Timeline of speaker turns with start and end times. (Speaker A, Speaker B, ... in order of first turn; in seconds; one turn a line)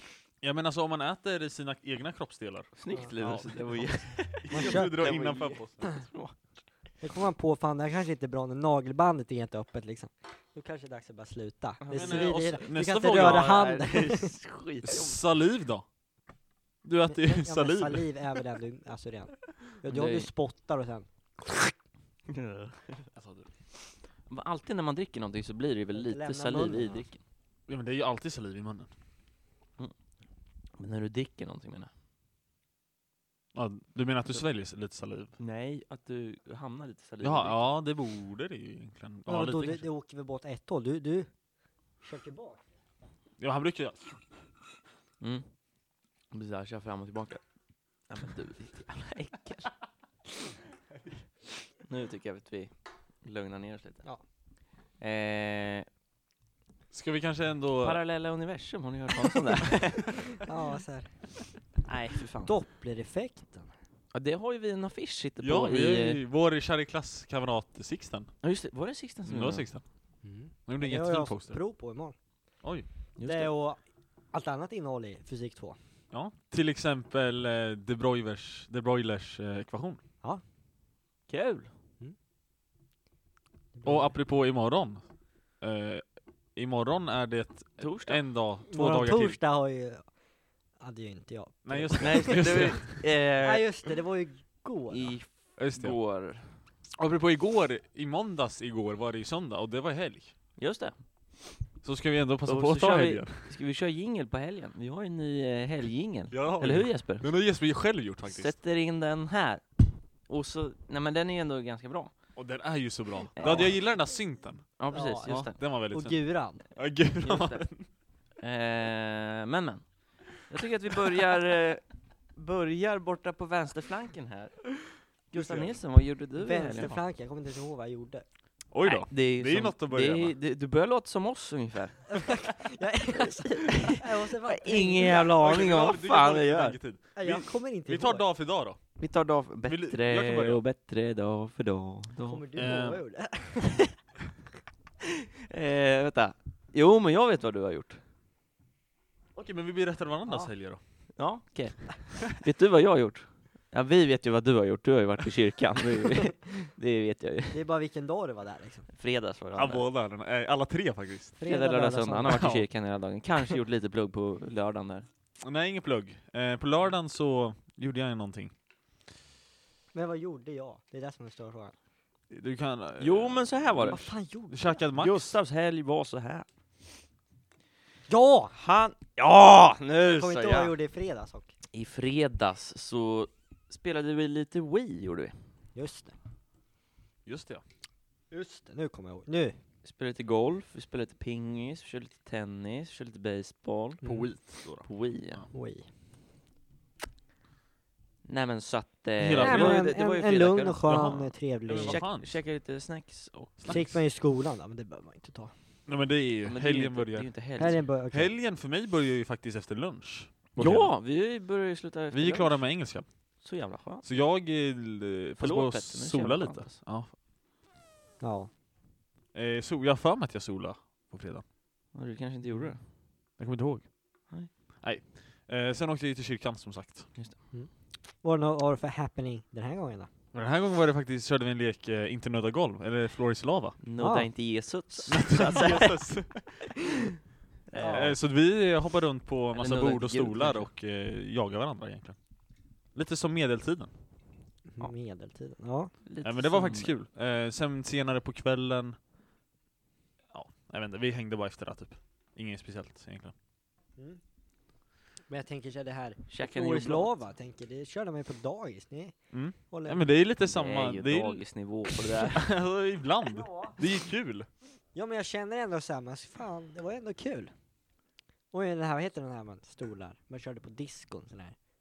Speaker A: 0.4-5.8
Speaker B: 2.8-6.3
Speaker C: 4.5-5.0
Speaker C: 7.0-14.3
Speaker B: 11.8-15.2
Speaker A: 11.9-13.6
Speaker A: 14.8-15.8
Speaker A: 16.8-18.1
Speaker C: 17.1-21.7
Speaker B: 19.9-20.3
Speaker B: 22.3-23.1
Speaker A: 23.1-23.5
Speaker B: 24.3-27.2
Speaker C: 25.9-27.1
Speaker A: 27.7-28.9
Speaker B: 30.8-31.9
Speaker A: 33.5-35.3
Speaker B: 35.4-37.6
Speaker A: 37.2-39.8
Speaker C: 39.3-41.3
Speaker C: 42.0-42.6
Speaker A: 43.4-44.0
Speaker B: 45.2-45.5
Speaker B: 46.3-47.4
Speaker B: 48.1-49.7
Speaker B: 51.8-52.7
Speaker B: 53.2-54.0
Speaker B: 55.0-55.9
Speaker A: 56.9-58.0
Speaker B: 57.8-60.4
Speaker C: 60.4-61.1
Speaker B: 61.8-62.5
Speaker C: 62.4-63.7
Speaker B: 64.1-66.2
Speaker A: 65.4-68.3
Speaker B: 68.4-69.7
Speaker A: 69.2-69.8
Speaker C: 70.2-72.1
Speaker A: 70.7-71.6
Speaker B: 73.2-73.5
Speaker C: 73.2-73.8
Speaker C: 74.3-75.8
Speaker A: 76.1-80.0
Speaker B: 81.3-81.7
Speaker C: 83.7-84.1
Speaker A: 83.8-85.0
Speaker A: 85.6-89.4
Speaker B: 87.8-88.2
Speaker C: 88.7-90.0
Speaker C: 90.8-92.8
Speaker A: 91.6-93.0
Speaker B: 92.0-93.9
Speaker C: 93.4-95.2
Speaker B: 94.9-96.6
Speaker A: 95.6-96.0
Speaker A: 97.0-100.3
Speaker B: 100.6-101.0
Speaker A: 101.8-103.4
Speaker B: 102.5-107.3
Speaker A: 106.3-108.5
Speaker B: 108.2-112.1
Speaker A: 112.4-114.7
Speaker B: 113.4-113.8
Speaker B: 114.8-115.5
Speaker C: 114.9-116.6
Speaker A: 115.2-117.9
Speaker B: 117.2-117.7
Speaker B: 118.4-121.8
Speaker B: 122.4-124.7
Speaker B: 125.3-126.9
Speaker A: 125.3-125.8
Speaker C: 126.4-128.2
Speaker A: 128.7-130.3
Speaker B: 128.9-132.2
Speaker C: 132.1-135.3
Speaker B: 133.2-136.8
Speaker A: 135.3-138.8
Speaker C: 137.2-138.2
Speaker B: 139.0-142.4
Speaker A: 139.7-140.6
Speaker C: 142.3-143.8
Speaker A: 142.6-143.0
Speaker B: 145.5-148.0
Speaker A: 149.3-150.8
Speaker B: 151.2-157.6
Speaker C: 157.5-158.9
Speaker B: 158.9-159.9
Speaker A: 159.5-161.4
Speaker C: 161.4-162.4
Speaker B: 161.5-165.1
Speaker A: 162.3-162.7
Speaker A: 165.4-168.5
Speaker C: 169.9-171.7
Speaker A: 172.3-175.4
Speaker B: 173.0-174.1
Speaker C: 173.8-174.8
Speaker B: 174.9-176.5
Speaker C: 178.1-178.5
Speaker B: 178.5-180.7
Speaker C: 180.0-181.5
Speaker B: 181.7-185.4
Speaker C: 185.7-186.1
Speaker A: 187.2-187.6
Speaker C: 188.3-189.6
Speaker B: 189.8-194.0
Speaker C: 194.0-194.3
Speaker A: 194.0-195.4
Speaker B: 194.8-195.4
Speaker C: 195.5-195.9
Speaker B: 198.2-203.7
Speaker A: 199.2-199.9
Speaker C: 199.4-202.0
Speaker A: 200.9-202.4
Speaker A: 203.6-204.0
Speaker C: 203.7-205.5
Speaker A: 205.9-207.3
Speaker B: 206.4-207.8
Speaker C: 207.6-208.3
Speaker A: 208.1-210.9
Speaker B: 210.6-212.6
Speaker A: 212.1-213.1
Speaker B: 213.4-214.1
Speaker A: 214.0-217.1
Speaker B: 215.4-216.8
Speaker C: 218.2-218.5
Speaker A: 219.3-221.4
Speaker B: 221.9-222.8
Speaker A: 223.4-223.9
Speaker A: 224.8-227.1
Speaker C: 227.5-230.1
Speaker A: 230.3-233.8
Speaker B: 233.8-236.1
Speaker C: 234.0-234.3
Speaker A: 235.1-236.7
Speaker B: 237.7-238.1
Speaker C: 237.7-238.1
Speaker A: 237.8-242.2
Speaker B: 239.5-240.7
Speaker A: 242.9-243.9
Speaker C: 244.7-245.9
Speaker B: 246.1-246.9
Speaker A: 246.2-249.0
Speaker A: 250.3-253.3
Speaker C: 255.3-259.1
Speaker B: 256.3-257.2
Speaker A: 259.3-261.4
Speaker C: 259.7-260.1
Speaker B: 260.4-262.4
Speaker A: 262.3-264.5
Speaker C: 264.9-267.5
Speaker C: 268.5-271.6